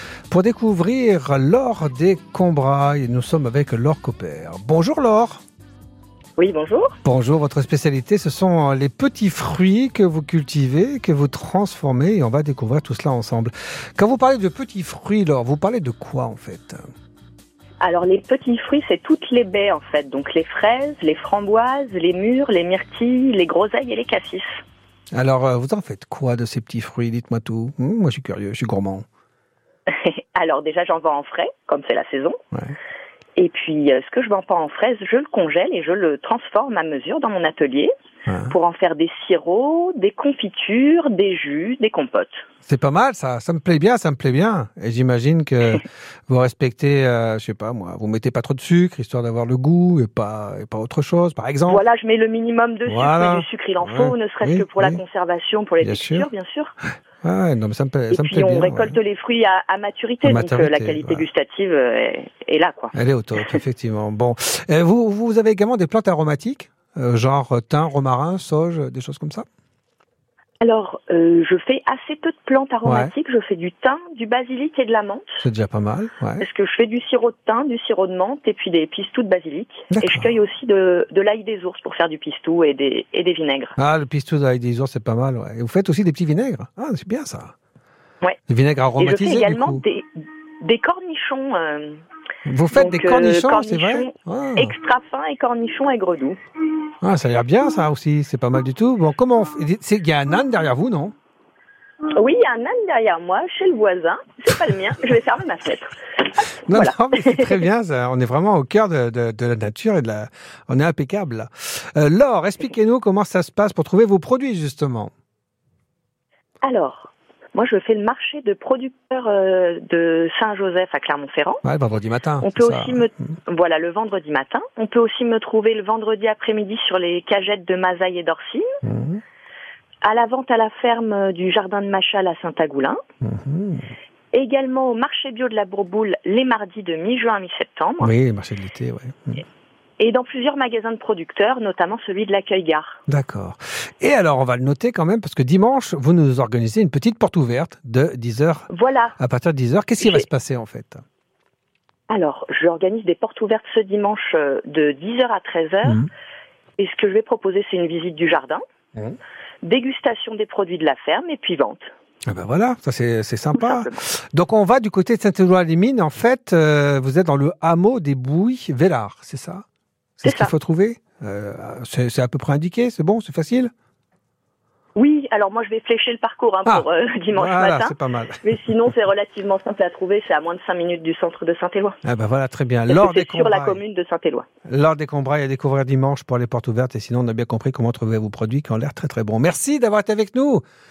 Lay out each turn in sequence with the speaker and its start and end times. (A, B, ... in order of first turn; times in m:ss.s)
0:00.3-0:05.4 A
0:06.4-0:07.0 B
0:07.0-0:16.8 A
0:17.8-0:24.6 B
0:25.1-0:29.0 A
0:29.9-0:32.4 B
0:33.4-0:37.9 B
0:38.3-0:38.5 A
0:38.5-0:42.4 B
0:42.6-0:51.8 A
0:51.7-0:56.7 B
0:52.8-0:55.0 A
0:55.8-0:56.3 A
0:57.2-0:59.0 A
0:58.1-1:03.6 B
1:00.2-1:01.2 A
1:02.9-1:09.4 A
1:10.6-1:15.4 B
1:12.8-1:13.1 A
1:15.4-1:16.4 A
1:16.4-1:23.8 B
1:19.9-1:20.3 A
1:23.8-1:27.5 A
1:28.5-1:29.8 A
1:29.0-1:32.0 B
1:32.4-1:34.7 A
1:32.7-1:36.4 B
1:37.0-1:41.1 A
1:42.1-1:46.0 B
1:46.6-1:47.5 B
1:46.6-1:55.1 A
1:56.6-2:01.6 B
2:01.6-2:03.1 A
2:02.4-2:08.6 B
2:08.8-2:09.2 A
2:10.0-2:13.0 B
2:13.2-2:13.9 A
2:14.3-2:18.1 B
2:18.0-2:19.4 A
2:20.0-2:23.0 B
2:23.1-2:31.0 A
2:28.7-2:29.2 B
2:32.1-2:36.0 B
2:35.8-2:36.1 A
2:36.8-2:38.6 B
2:39.6-2:41.8 B
2:42.2-2:49.6 A
2:43.5-2:44.0 B
2:50.2-2:53.7 A
2:50.2-2:50.5 B
2:55.0-3:02.0 B
2:56.6-2:58.4 A
3:02.0-3:03.8 A
3:02.9-3:04.4 B
3:04.6-3:10.6 A